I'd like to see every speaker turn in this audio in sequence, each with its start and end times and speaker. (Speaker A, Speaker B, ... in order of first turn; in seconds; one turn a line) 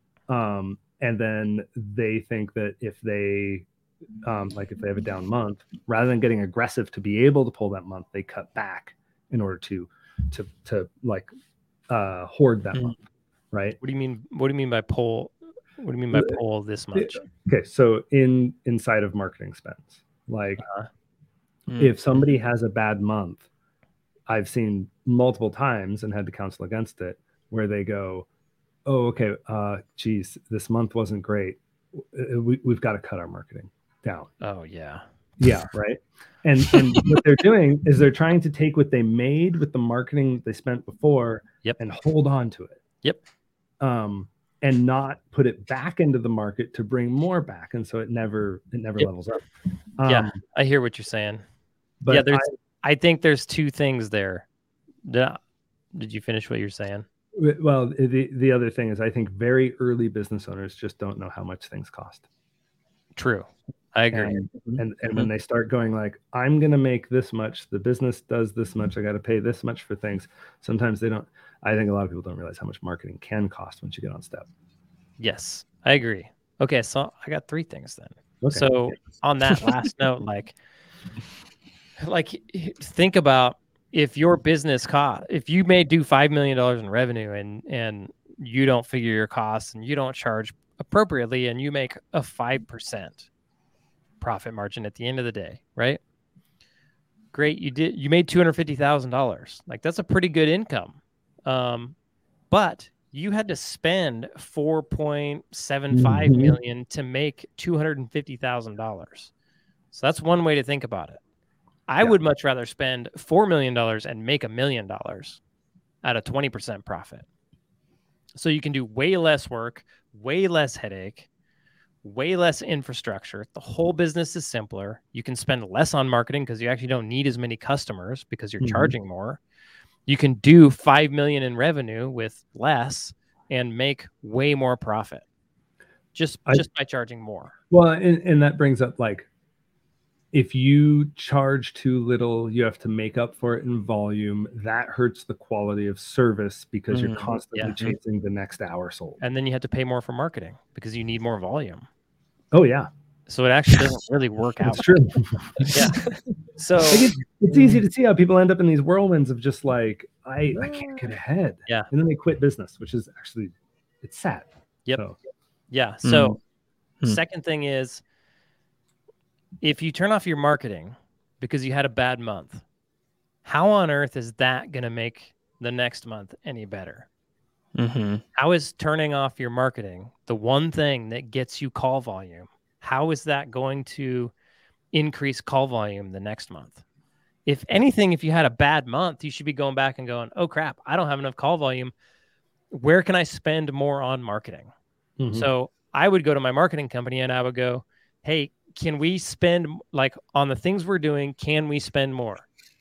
Speaker A: 0.3-3.6
Speaker A: 4.2-11.3
Speaker A: 11.9-13.0
Speaker A: 13.5-13.8
Speaker B: 13.8-17.2
Speaker A: 16.1-16.4
Speaker A: 16.9-20.6
Speaker B: 20.6-20.9
Speaker C: 21.7-21.9
Speaker A: 21.8-23.4
Speaker A: 24.3-28.3
Speaker A: 28.9-34.3
Speaker B: 34.4-35.0
Speaker A: 35.4-42.8
Speaker A: 43.8-49.4
Speaker A: 50.0-50.4
Speaker B: 50.1-51.4
Speaker A: 52.0-52.5
Speaker B: 52.1-54.4
Speaker B: 55.0-55.4
Speaker B: 55.9-57.0
Speaker A: 57.4-62.2
Speaker B: 63.1-64.4
Speaker A: 64.1-74.5
Speaker C: 64.7-65.3
Speaker B: 75.2-80.5
Speaker A: 78.4-78.7
Speaker B: 82.0-93.3
Speaker B: 94.2-96.0
Speaker B: 97.3-101.9
Speaker B: 102.5-109.3
Speaker A: 105.9-106.6
Speaker B: 109.9-111.2
Speaker B: 111.9-115.4
Speaker B: 116.0-117.2
Speaker B: 118.3-121.3
Speaker B: 122.0-129.4
Speaker A: 128.6-128.9
Speaker B: 130.1-135.2
Speaker B: 136.1-137.5
Speaker A: 137.7-139.3
Speaker A: 140.3-149.2
Speaker C: 146.9-147.9
Speaker B: 149.2-151.8
Speaker A: 152.5-152.9
Speaker B: 153.3-154.9
Speaker A: 154.6-156.0
Speaker C: 155.6-156.2
Speaker B: 155.7-156.0
Speaker B: 156.6-157.1
Speaker A: 156.9-165.2
Speaker C: 157.5-157.8
Speaker B: 165.7-166.4
Speaker C: 166.0-166.4
Speaker B: 167.0-168.0
Speaker B: 169.6-172.6
Speaker B: 173.4-177.1
Speaker C: 177.8-178.2
Speaker B: 178.3-184.3
Speaker B: 184.9-186.8
Speaker B: 187.4-191.9
Speaker B: 192.7-194.7
Speaker A: 195.2-195.5
Speaker B: 195.3-202.4